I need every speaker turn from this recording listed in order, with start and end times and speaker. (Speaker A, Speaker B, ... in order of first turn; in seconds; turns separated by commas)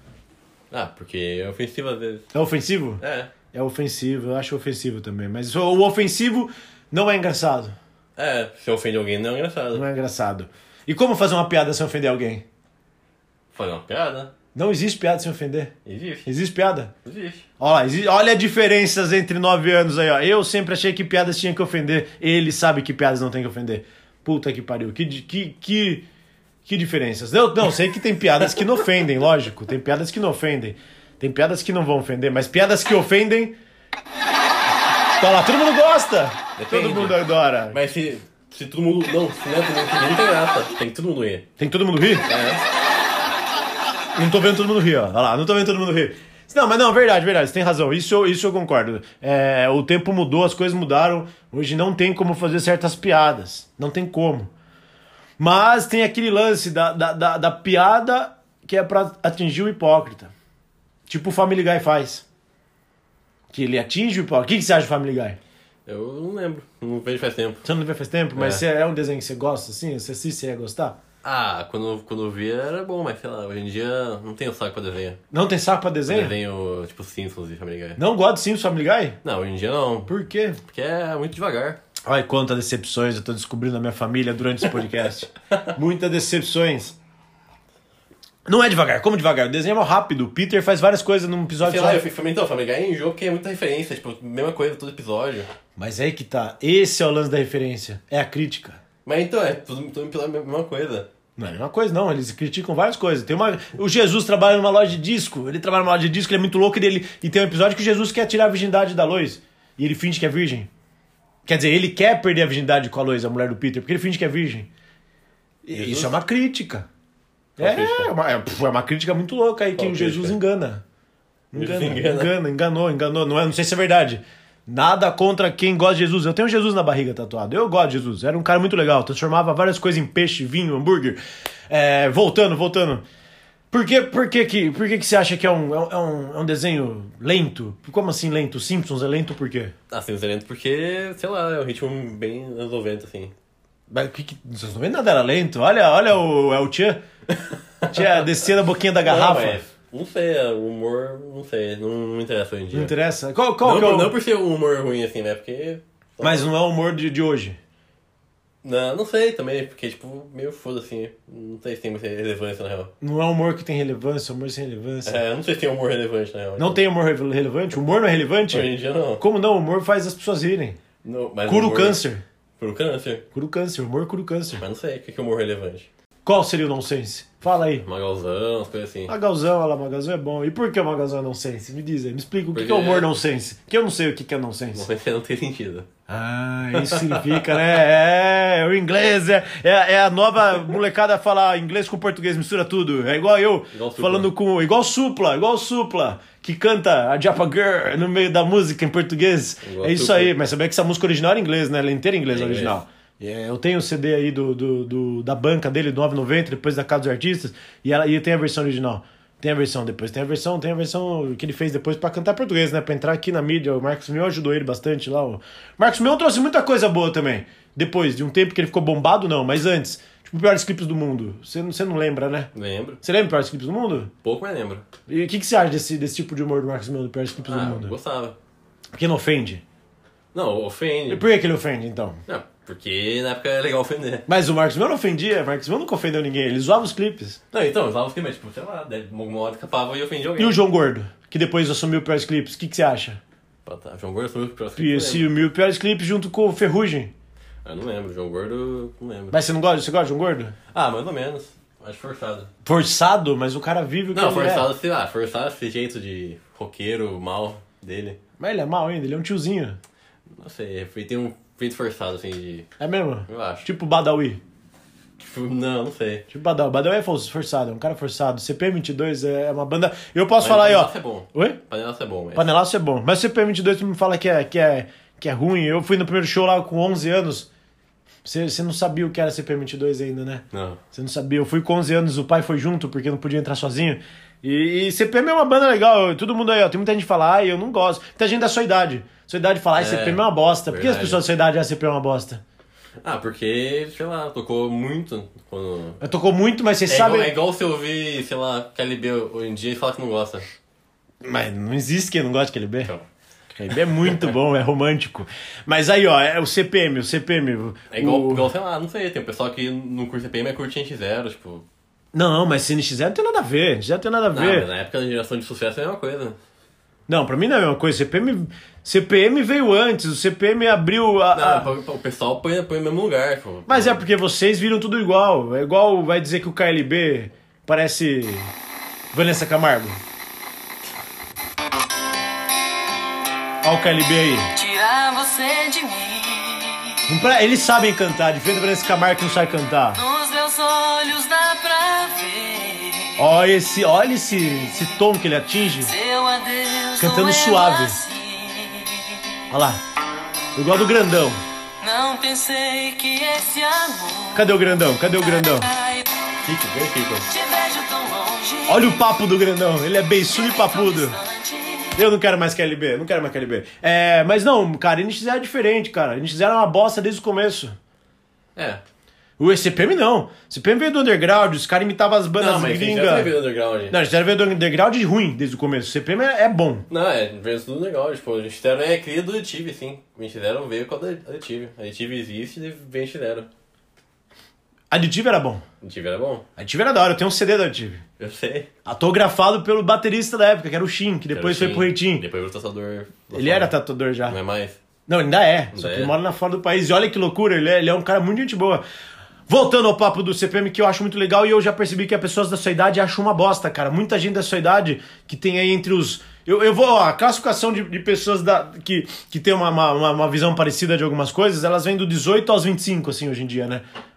Speaker A: 0.7-2.3, Speaker B: 2.3-3.0, Speaker A: 3.0-3.3, Speaker B: 3.5-7.8, Speaker A: 8.2-9.8, Speaker B: 9.7-12.4, Speaker A: 13.5-14.3, Speaker B: 14.5-15.7, Speaker A: 15.8-16.3, Speaker B: 16.2-16.9, Speaker A: 17.0-17.5, Speaker B: 17.6-26.1, Speaker B: 26.6-33.5, Speaker B: 35.2-37.8, Speaker A: 36.5-41.5, Speaker B: 41.6-42.2, Speaker A: 42.2-42.6, Speaker B: 44.1-54.5, Speaker B: 55.4-60.3, Speaker B: 61.1-62.2, Speaker B: 63.5-65.4, Speaker A: 65.8-67.6, Speaker B: 67.6-71.0, Speaker A: 68.3-68.6, Speaker A: 71.2-75.2, Speaker B: 75.3-76.3, Speaker A: 76.1-78.0, Speaker B: 78.0-79.2, Speaker A: 79.2-80.1, Speaker B: 80.1-80.6, Speaker A: 80.7-81.8, Speaker B: 82.0-86.9, Speaker B: 88.5-92.0, Speaker A: 91.6-95.5, Speaker B: 95.8-98.8, Speaker A: 99.0-101.1, Speaker B: 101.4-110.7, Speaker B: 111.5-114.7, Speaker B: 115.6-116.9, Speaker A: 115.7-116.1, Speaker A: 117.6-118.1, Speaker B: 117.6-120.8, Speaker A: 119.8-120.4, Speaker B: 121.5-133.0, Speaker A: 121.5-122.3, Speaker B: 133.7-139.7, Speaker A: 139.9-143.3, Speaker B: 143.9-147.0, Speaker B: 147.9-149.6, Speaker A: 149.0-152.9, Speaker B: 152.7-154.1, Speaker A: 153.6-156.5, Speaker B: 156.2-157.6, Speaker A: 158.6-162.9, Speaker B: 163.0-165.2, Speaker A: 165.0-166.8, Speaker B: 166.6-170.8, Speaker A: 168.5-169.2, Speaker A: 171.0-172.0, Speaker B: 171.5-172.2, Speaker A: 172.6-173.2, Speaker B: 173.3-174.6, Speaker A: 174.6-175.9, Speaker B: 176.2-177.8, Speaker A: 177.8-179.1, Speaker B: 179.1-184.8, Speaker A: 182.5-183.1, Speaker A: 184.7-185.9, Speaker B: 186.1-222.5, Speaker A: 186.7-187.4, Speaker A: 193.7-194.3, Speaker A: 199.6-200.3, Speaker A: 202.3-202.8, Speaker A: 222.5-223.0, Speaker B: 223.0-224.1, Speaker A: 224.2-224.8, Speaker B: 225.1-227.9, Speaker A: 227.5-228.3, Speaker B: 228.9-229.6, Speaker A: 230.3-231.2, Speaker B: 231.1-232.2, Speaker A: 232.3-234.3, Speaker B: 234.3-237.4, Speaker A: 237.5-240.6, Speaker B: 240.4-243.2, Speaker A: 243.6-245.3, Speaker B: 244.8-247.1, Speaker A: 247.6-249.4, Speaker B: 249.3-250.5, Speaker A: 250.7-252.5, Speaker B: 252.6-254.7, Speaker A: 254.1-258.2, Speaker B: 258.4-259.8, Speaker A: 260.4-262.7, Speaker B: 262.8-264.4, Speaker A: 263.3-263.6, Speaker A: 265.2-266.2, Speaker B: 266.3-271.6, Speaker A: 270.4-272.5, Speaker B: 272.3-277.5, Speaker B: 278.2-292.4, Speaker A: 280.5-280.8, Speaker A: 289.8-291.2, Speaker A: 293.0-296.0, Speaker B: 296.0-297.3, Speaker A: 296.9-300.4, Speaker B: 301.2-302.9, Speaker B: 303.5-308.5, Speaker A: 307.9-311.6, Speaker B: 312.1-314.7, Speaker A: 314.3-316.4, Speaker B: 317.1-321.7, Speaker A: 321.3-324.1, Speaker B: 323.7-328.5, Speaker B: 329.1-330.0, Speaker B: 333.6-334.5, Speaker C: 334.5-337.0, Speaker B: 337.1-340.0, Speaker C: 339.9-343.2, Speaker B: 343.2-345.9, Speaker C: 345.8-349.4, Speaker B: 347.0-348.0, Speaker B: 349.5-349.8, Speaker B: 350.6-351.4, Speaker C: 351.8-356.1, Speaker B: 354.3-355.7, Speaker A: 356.4-357.3, Speaker C: 357.3-359.0, Speaker B: 358.7-361.2, Speaker C: 360.2-362.0, Speaker B: 361.9-367.7, Speaker A: 368.6-368.8, Speaker B: 369.4-373.4, Speaker A: 372.4-374.0, Speaker B: 373.9-376.8, Speaker A: 376.9-383.5, Speaker B: 384.9-385.6, Speaker A: 385.8-386.4, Speaker B: 386.6-388.0, Speaker A: 388.2-388.7, Speaker B: 388.8-392.3, Speaker A: 391.3-393.7, Speaker B: 393.3-394.4, Speaker A: 394.2-394.8, Speaker B: 395.1-398.8, Speaker A: 395.7-396.1, Speaker B: 399.5-413.8